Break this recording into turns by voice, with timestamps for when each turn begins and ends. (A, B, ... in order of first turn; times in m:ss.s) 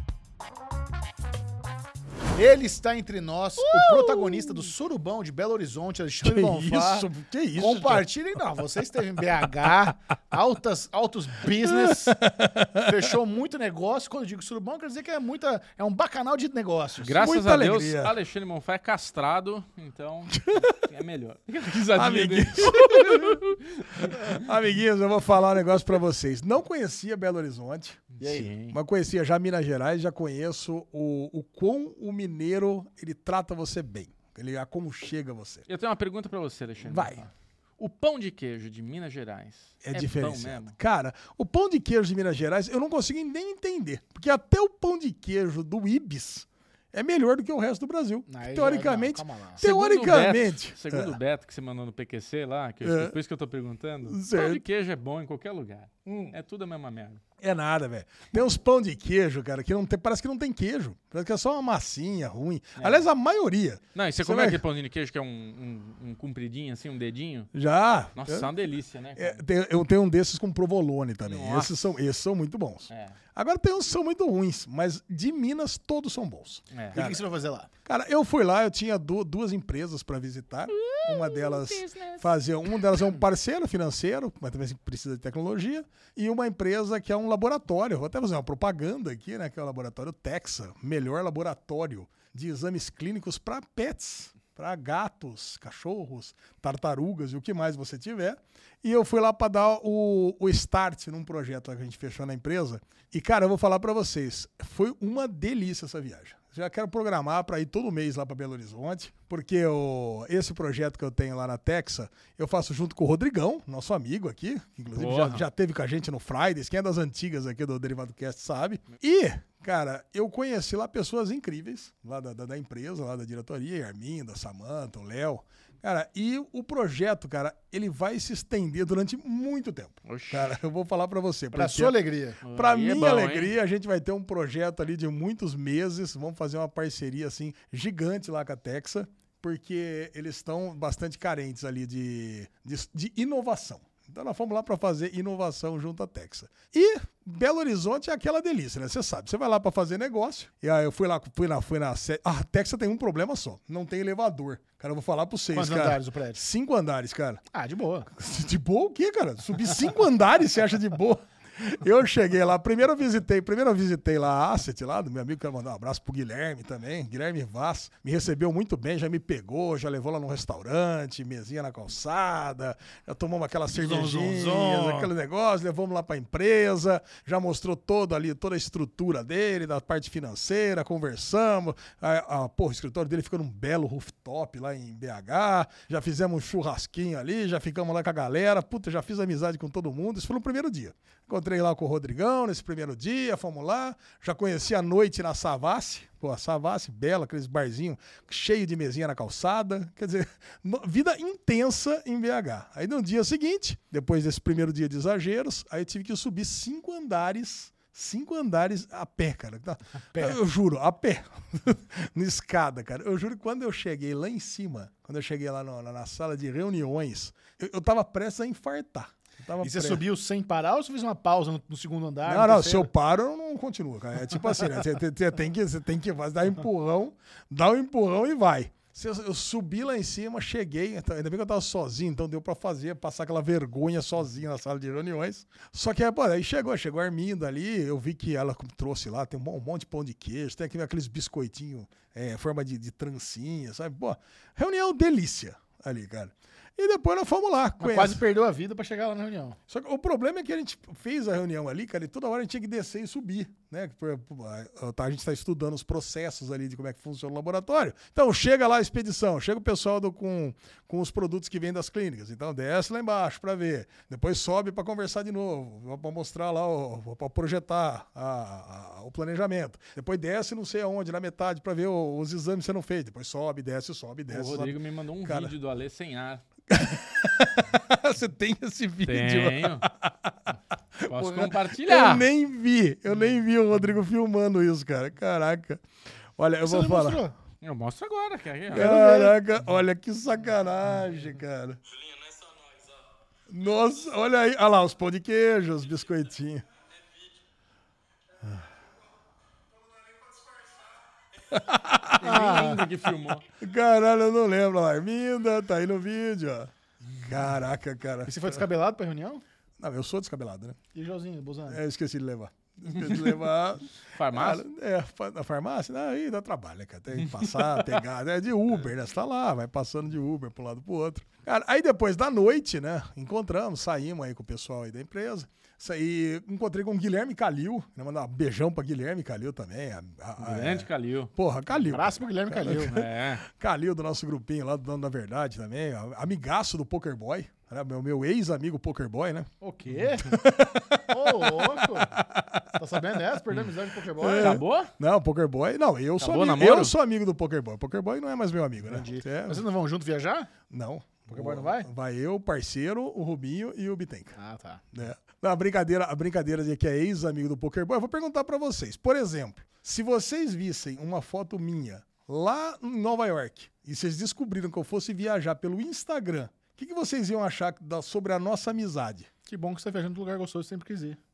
0:02.3-0:12.2 A
0:03.6-0:04.6 B
0:06.2-0:08.0 B
0:11.5-0:12.9 B
0:12.8-0:17.2 A
0:17.0-0:24.5 C
0:17.1-0:18.1 B
0:20.3-0:20.8 B
0:21.9-0:23.4 B
0:24.0-0:35.7 B
0:28.2-0:28.8 C
0:35.7-0:40.7 C
0:36.8-0:37.2 B
0:39.8-0:51.2 B
0:48.3-0:49.6 A
0:49.6-0:57.2 C
0:52.8-0:53.2 B
0:54.0-0:54.6 B
0:56.0-0:56.4 B
0:57.4-1:04.6 B
1:02.8-1:03.0 C
1:03.9-1:07.5 C
1:07.5-1:08.5 B
1:08.1-1:09.4 C
1:09.2-1:17.2 B
1:11.2-1:11.8 C
1:12.9-1:13.2 C
1:16.7-1:17.0 C
1:16.9-1:17.7 A
1:17.8-2:11.9 B
1:20.7-1:22.3 C
1:55.0-1:55.5 C
2:10.0-2:10.5 C
2:11.5-2:12.4 A
2:12.4-2:13.5 C
2:12.5-2:37.4 B
2:35.5-2:36.4 A
2:37.5-2:38.1 A
2:38.1-3:40.0 B
2:53.7-2:55.1 A
3:30.1-3:30.4 A
3:39.6-3:42.9 A
3:42.2-4:08.2 B
4:07.8-4:09.6 A
4:09.7-4:35.5 B
4:34.3-4:36.4 C
4:36.7-4:45.8 B
4:39.0-4:39.8 C
4:41.1-4:42.3 C
4:46.4-4:47.2 B
4:46.6-4:47.3 A
4:47.6-4:48.9 C
4:48.7-4:51.8 B
4:48.7-4:49.4 A
4:53.5-4:56.6 B
5:01.5-5:02.3 B
5:02.2-5:03.4 C
5:02.2-5:02.8 A
5:03.6-5:08.6 B
5:08.2-5:09.4 A
5:09.8-5:10.8 B
5:10.9-5:11.8 A
5:11.7-5:39.5 B
5:12.9-5:13.4 C
5:14.1-5:14.6 C
5:17.2-5:17.9 C
5:30.4-5:31.3 C
5:31.7-5:33.0 A
5:32.7-5:33.4 C
5:39.6-5:40.4 A
5:40.2-5:42.7 B
5:41.1-5:42.1 A
5:42.8-5:44.6 A
5:44.2-5:49.6 B
5:44.4-5:44.9 C
5:46.2-5:46.9 C
5:48.9-5:50.5 A
5:50.7-5:54.3 B
5:51.3-5:51.9 A
5:54.4-5:54.8 A
5:54.9-6:09.3 B
6:09.4-6:11.2 A